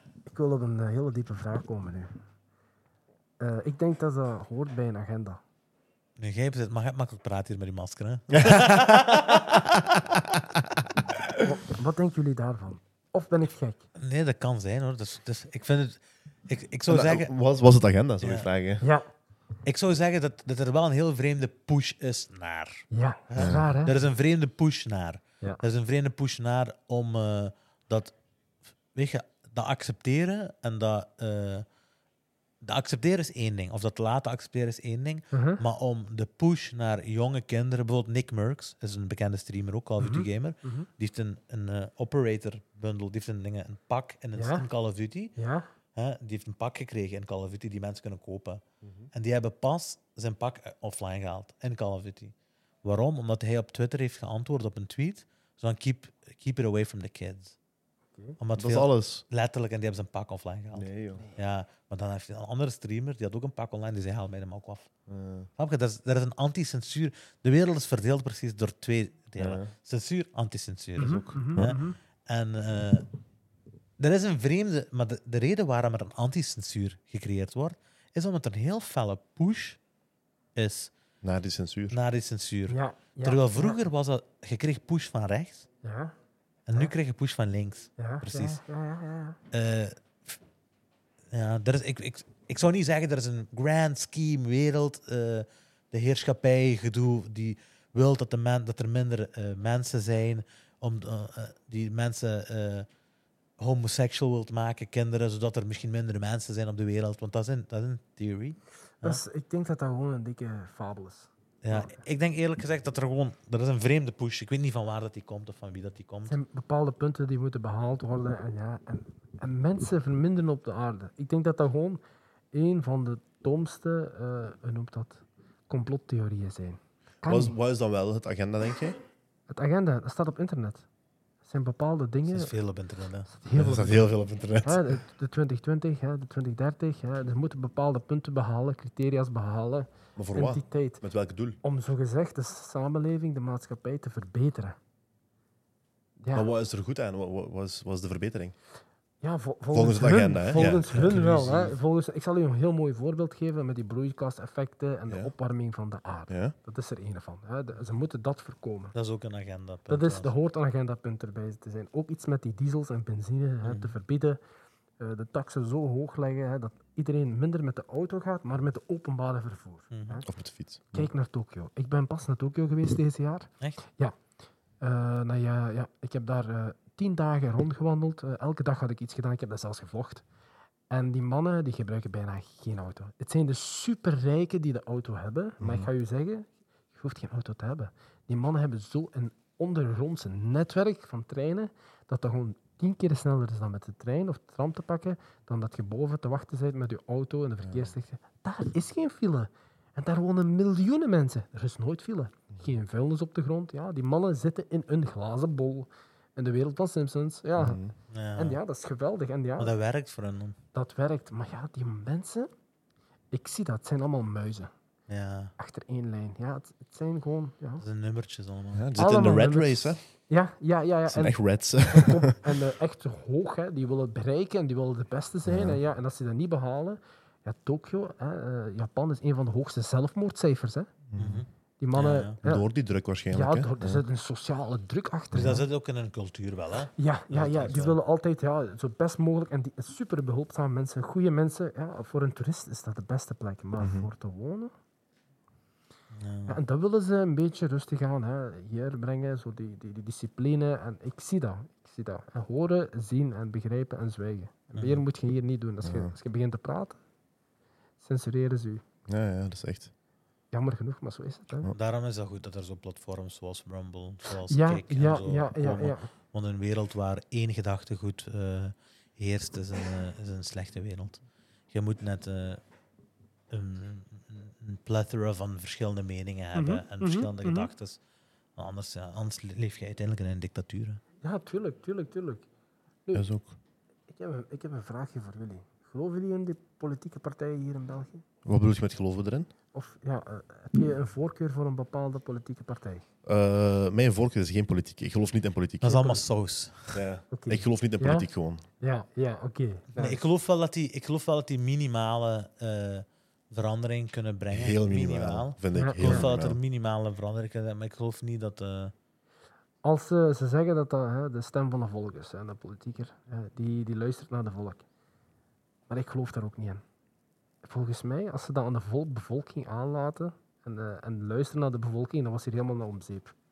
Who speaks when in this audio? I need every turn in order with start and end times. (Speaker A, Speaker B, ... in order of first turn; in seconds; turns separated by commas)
Speaker A: 0.3-2.1, Speaker A: 3.4-5.4, Speaker B: 6.2-9.7, Speaker C: 8.3-11.4, Speaker A: 11.4-13.8, Speaker B: 14.0-17.3, Speaker C: 16.9-18.8, Speaker B: 18.2-18.5, Speaker A: 18.8-19.1, Speaker B: 19.6-28.1, Speaker A: 22.9-23.9, Speaker C: 23.4-23.7, Speaker B: 28.9-31.7, Speaker B: 32.6-45.4, Speaker A: 35.3-35.6, Speaker A: 40.0-40.9, Speaker A: 44.4-44.7, Speaker A: 45.4-45.7, Speaker B: 46.0-48.6, Speaker C: 48.8-49.1, Speaker B: 49.1-57.5, Speaker B: 58.4-64.9, Speaker C: 58.6-59.2, Speaker C: 60.7-61.2, Speaker C: 65.1-65.5, Speaker B: 65.6-73.1, Speaker C: 69.4-69.7, Speaker A: 71.0-72.0, Speaker C: 71.0-71.8, Speaker B: 74.0-79.8, Speaker B: 80.5-80.9, Speaker C: 81.2-82.0, Speaker B: 81.9-85.7, Speaker A: 82.7-83.8, Speaker A: 85.8-86.1, Speaker B: 86.7-88.6, Speaker A: 88.0-89.4, Speaker B: 89.5-90.4, Speaker B: 91.3-102.9, Speaker B: 103.6-109.2, Speaker A: 109.0-112.0, Speaker B: 111.6-116.4, Speaker A: 116.3-122.0, Speaker A: 122.5-127.5, Speaker C: 127.3-129.0, Speaker A: 129.5-130.9, Speaker A: 131.4-132.5, Speaker B: 132.3-133.3, Speaker A: 133.3-134.0, Speaker C: 133.6-135.0, Speaker A: 134.6-141.0, Speaker C: 140.2-141.6, Speaker A: 141.6-144.8, Speaker A: 146.2-146.5, Speaker C: 146.3-148.6, Speaker A: 149.2-158.9, Speaker C: 149.7-151.0, Speaker B: 150.6-151.7, Speaker C: 156.3-156.6, Speaker B: 158.9-160.3, Speaker A: 159.9-164.4, Speaker B: 163.6-163.9, Speaker A: 165.0-170.2, Speaker B: 169.9-170.2, Speaker C: 170.3-171.1, Speaker A: 170.9-174.2, Speaker A: 174.8-180.2, Speaker A: 180.9-207.8, Speaker C: 185.6-185.9, Speaker C: 197.7-197.9, Speaker C: 207.6-207.9, Speaker B: 208.1-208.6, Speaker A: 208.4-209.8, Speaker B: 209.6-210.6, Speaker A: 210.7-212.5, Speaker A: 213.3-214.7, Speaker B: 215.1-215.5, Speaker A: 215.6-217.8, Speaker B: 217.8-218.9, Speaker C: 218.7-220.0, Speaker A: 219.0-230.9, Speaker C: 221.1-222.3, Speaker C: 225.5-225.8, Speaker C: 231.1-231.4, Speaker B: 231.2-232.4, Speaker A: 231.8-232.6, Speaker C: 232.4-234.0, Speaker A: 233.3-235.7, Speaker B: 235.3-238.0, Speaker A: 237.0-244.7, Speaker C: 243.8-244.1, Speaker B: 246.1-246.6, Speaker A: 246.5-257.0, Speaker B: 254.8-255.0, Speaker C: 255.8-256.1, Speaker A: 258.0-258.8, Speaker C: 259.1-259.9, Speaker A: 260.5-261.7, Speaker B: 261.7-272.6, Speaker A: 264.5-266.1, Speaker B: 273.5-278.0, Speaker A: 276.6-277.7, Speaker B: 278.6-281.0, Speaker A: 281.2-282.5, Speaker C: 283.1-283.5, Speaker A: 284.1-288.2, Speaker C: 288.4-289.5, Speaker A: 289.7-293.0, Speaker C: 293.3-296.2, Speaker B: 295.8-297.0, Speaker C: 296.9-298.6, Speaker A: 297.3-298.3, Speaker A: 298.8-300.2, Speaker B: 299.9-308.9, Speaker C: 304.5-306.6, Speaker A: 305.7-306.3, Speaker A: 309.8-314.8, Speaker A: 315.9-316.8, Speaker A: 317.6-323.4